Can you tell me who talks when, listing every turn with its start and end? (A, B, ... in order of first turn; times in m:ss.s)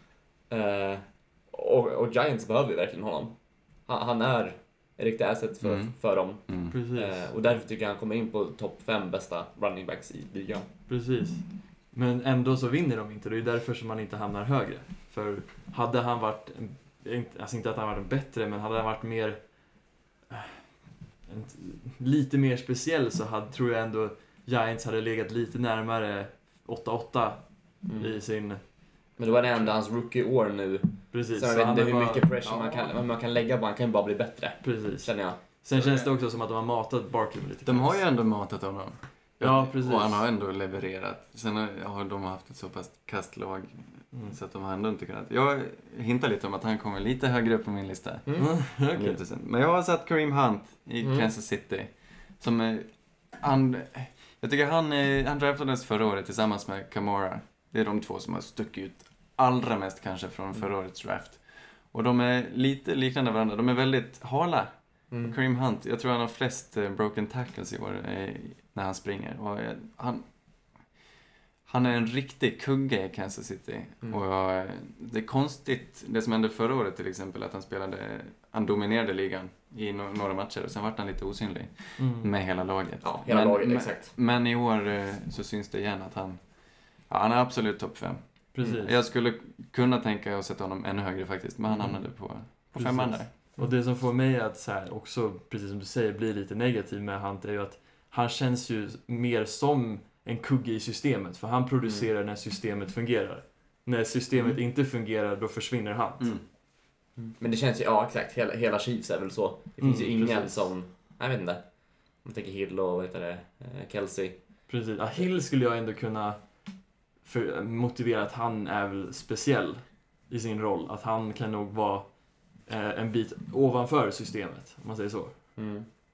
0:00.5-0:03.4 A
0:03.9-0:10.7 A
0:05.6-0:05.9 B
0:06.5-0:06.7 B
0:06.7-0:07.3 C
0:10.9-0:19.4 C
0:20.3-0:20.6 C
0:21.3-0:27.4 C
0:27.8-0:28.2 A
0:27.9-0:28.6 C
0:29.2-0:35.9 A
0:31.1-0:32.5 C
0:34.6-0:38.0 C
0:37.6-1:04.7 B
0:39.4-0:40.2 C
0:48.4-0:49.2 C
0:51.0-0:51.3 A
1:05.1-1:05.4 A
1:05.2-1:10.2 B
1:11.7-1:33.3 B
1:22.0-1:22.3 C
1:23.0-1:24.1 A
1:28.5-1:28.9 C
1:32.8-1:46.3 C
1:47.4-1:51.6 A
1:49.8-1:50.6 C
1:52.2-1:54.4 A
1:54.7-1:56.4 C
1:57.2-2:02.1 C
2:02.6-2:05.3 C
2:05.6-2:05.9 A